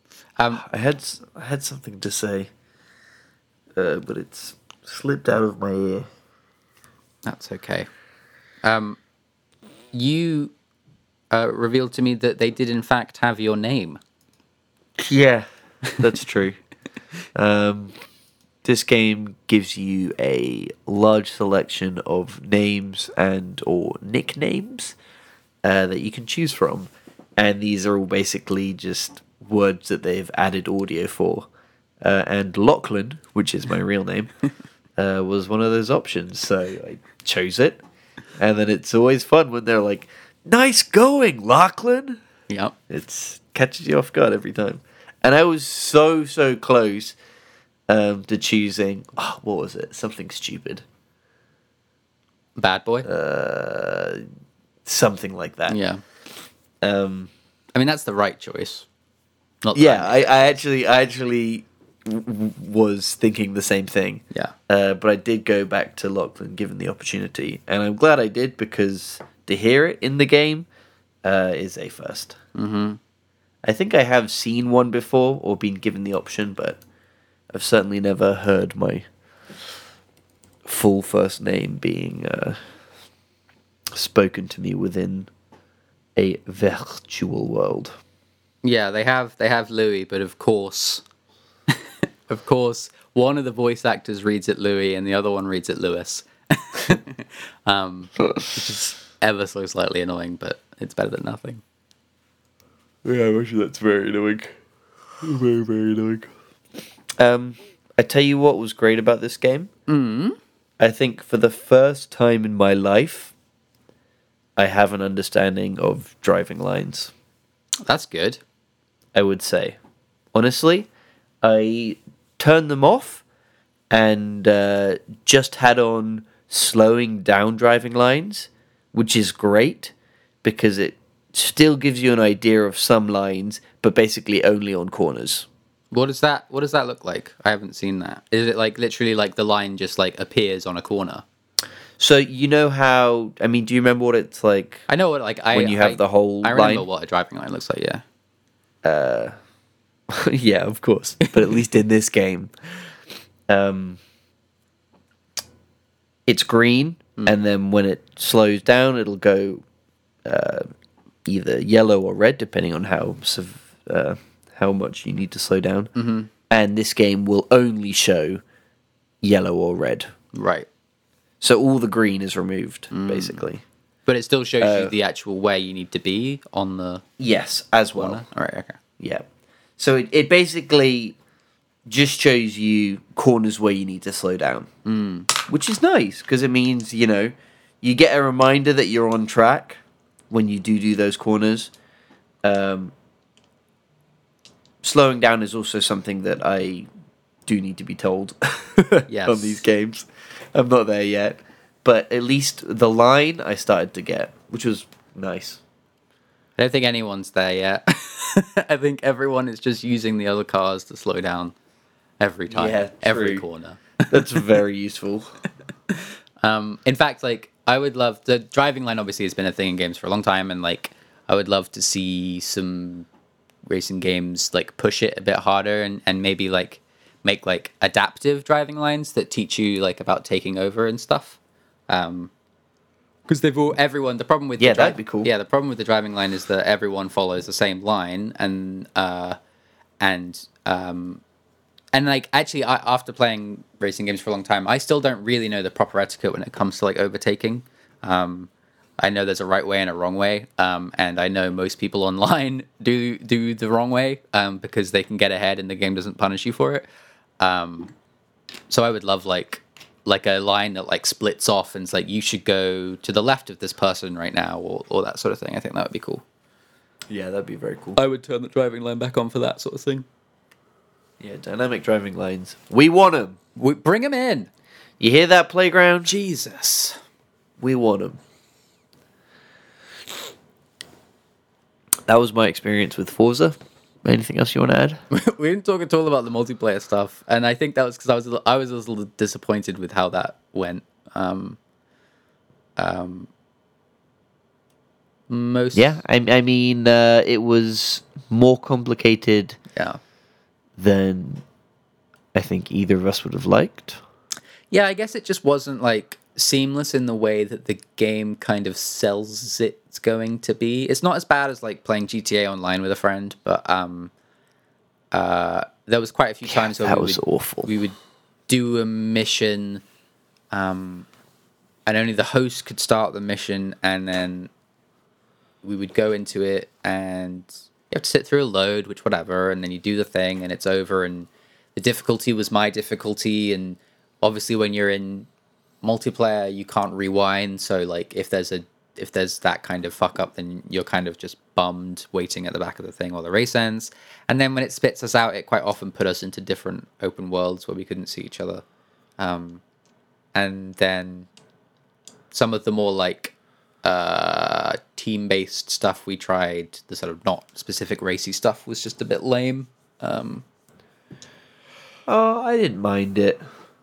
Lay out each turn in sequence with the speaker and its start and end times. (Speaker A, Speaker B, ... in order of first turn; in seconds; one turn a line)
Speaker A: 0.4-0.7
Speaker B: 0.5-2.5
Speaker B: 3.8-6.1
Speaker A: 7.2-7.9
Speaker A: 8.6-9.0
Speaker A: 9.9-10.5
Speaker A: 11.3-14.0
Speaker B: 15.0-15.4
Speaker B: 16.0-16.6
Speaker B: 17.4-17.9
Speaker B: 18.6-24.9
Speaker B: 25.6-31.5
Speaker B: 32.0-34.3
Speaker B: 35.0-37.8
Speaker B: 38.4-42.2
Speaker A: 42.5-42.7
Speaker B: 42.9-47.1
Speaker B: 47.9-50.8
Speaker A: 52.6-53.1
Speaker B: 53.0-54.2
Speaker B: 54.9-55.8
Speaker A: 55.7-56.0
Speaker B: 56.8-57.3
Speaker A: 57.7-58.9
Speaker A: 59.6-60.5
Speaker B: 59.7-70.7
Speaker B: 71.2-72.4
Speaker A: 72.5-73.0
Speaker B: 73.6-76.8
Speaker B: 77.5-79.1
Speaker B: 80.6-82.6
Speaker B: 83.9-85.3
Speaker B: 86.2-87.9
Speaker A: 88.6-91.0
Speaker A: 91.7-101.6
Speaker B: 103.0-104.6
Speaker B: 105.2-106.3
Speaker B: 107.2-109.7
Speaker A: 109.9-110.4
Speaker B: 110.8-113.3
Speaker B: 114.6-117.1
Speaker A: 117.9-118.4
Speaker B: 119.1-119.8
Speaker B: 120.3-120.9
Speaker B: 121.4-123.2
Speaker B: 123.9-129.9
Speaker B: 130.4-135.5
Speaker A: 135.9-141.2
Speaker B: 142.0-144.9
Speaker A: 144.9-148.0
Speaker B: 145.5-146.9
Speaker B: 148.8-149.3
Speaker B: 150.1-152.5
Speaker B: 153.5-154.0
Speaker B: 156.3-159.6
Speaker B: 160.2-160.7
Speaker B: 161.3-165.9
Speaker A: 165.9-166.3
Speaker B: 166.5-168.4
Speaker B: 169.2-170.1
Speaker A: 170.3-170.7
Speaker B: 171.4-173.6
Speaker A: 172.9-173.4
Speaker A: 174.1-177.0
Speaker B: 174.6-174.9
Speaker B: 177.2-178.2
Speaker A: 177.9-178.8
Speaker B: 179.0-179.3
Speaker B: 179.8-181.2
Speaker B: 181.9-184.7
Speaker A: 184.8-185.3
Speaker B: 185.3-191.7
Speaker B: 192.4-192.9
Speaker B: 194.8-196.9
Speaker B: 197.4-205.6
Speaker A: 199.1-199.6
Speaker A: 206.6-211.5
Speaker A: 212.2-214.5
Speaker B: 212.5-213.4
Speaker B: 214.1-215.3
Speaker A: 215.9-223.1
Speaker A: 223.7-232.3
Speaker A: 233.3-239.4
Speaker B: 234.6-235.3
Speaker A: 240.0-241.2
Speaker A: 241.9-256.9
Speaker A: 257.4-257.9
Speaker A: 258.7-266.2
Speaker B: 267.1-268.0
Speaker A: 267.9-270.1
Speaker B: 271.2-273.4
Speaker A: 273.6-274.5
Speaker B: 275.0-276.1
Speaker A: 276.1-277.0
Speaker B: 277.6-278.2
Speaker B: 282.1-285.0
Speaker A: 285.1-291.6
Speaker A: 292.8-293.3
Speaker A: 295.3-296.0
Speaker B: 295.7-299.6
Speaker A: 299.7-300.0
Speaker B: 300.8-301.4
Speaker B: 302.3-304.0
Speaker A: 304.7-314.1
Speaker A: 315.1-317.9
Speaker B: 316.5-317.7
Speaker A: 318.5-319.8
Speaker A: 320.5-321.1
Speaker A: 321.9-324.5
Speaker A: 325.6-335.3
Speaker A: 335.8-348.6
Speaker A: 349.2-349.6
Speaker A: 350.3-351.3
Speaker A: 352.3-360.4
Speaker B: 362.1-363.4